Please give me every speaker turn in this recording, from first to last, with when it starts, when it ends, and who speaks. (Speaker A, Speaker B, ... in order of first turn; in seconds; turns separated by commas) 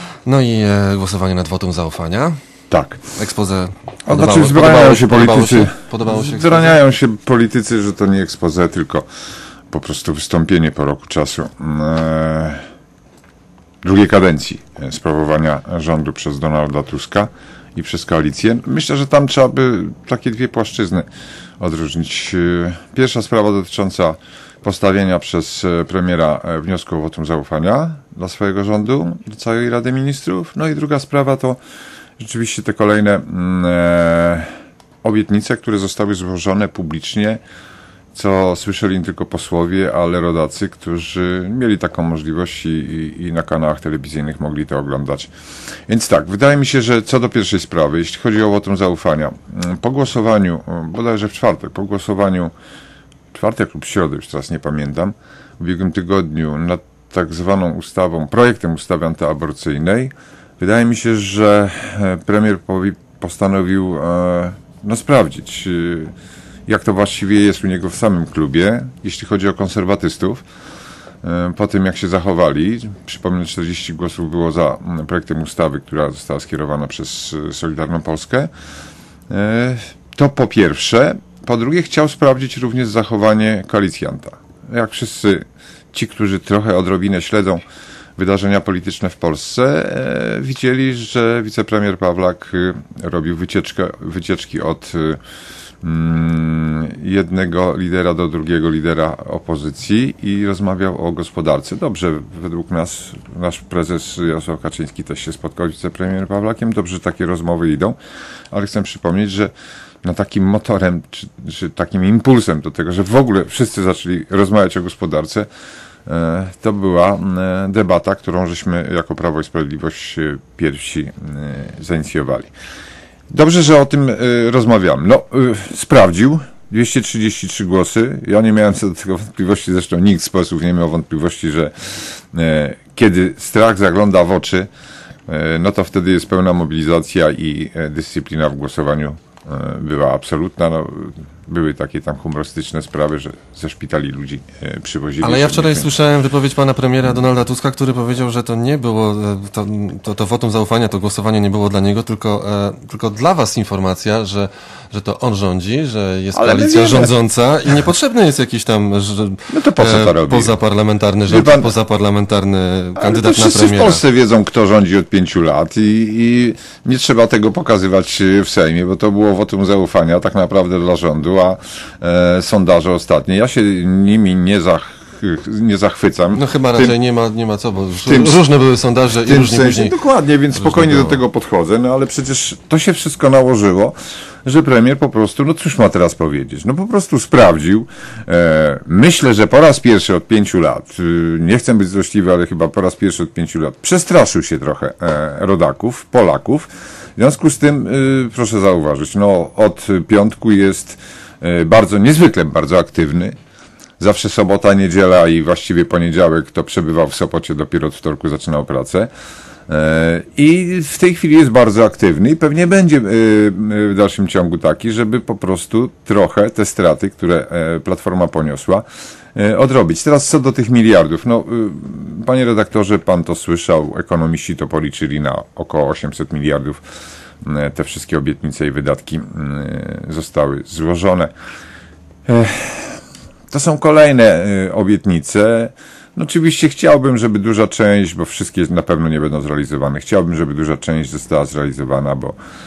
Speaker A: 0.2-2.4, Speaker B: 2.7-3.0, Speaker A: 3.1-6.8, Speaker B: 4.1-9.1, Speaker B: 9.7-12.6, Speaker B: 13.8-21.1, Speaker B: 21.6-31.6, Speaker B: 32.2-34.5, Speaker B: 35.0-37.4, Speaker B: 38.1-45.3, Speaker B: 45.9-52.5, Speaker B: 53.3-66.1, Speaker B: 66.7-70.4, Speaker B: 71.2-78.5, Speaker B: 79.3-87.6, Speaker B: 88.2-95.2, Speaker B: 95.8-108.0, Speaker B: 108.5-109.5, Speaker B: 110.0-115.5, Speaker B: 116.0-122.5, Speaker B: 123.3-134.7, Speaker B: 135.3-145.9, Speaker A: 145.2-164.0, Speaker B: 156.3-157.1, Speaker B: 159.5-160.5, Speaker B: 161.3-161.7, Speaker B: 163.0-176.9, Speaker A: 176.3-180.0, Speaker B: 178.0-178.4, Speaker B: 179.2-203.3, Speaker A: 180.5-181.2, Speaker B: 204.0-209.1, Speaker B: 209.7-226.8, Speaker B: 227.4-231.3, Speaker B: 232.2-242.3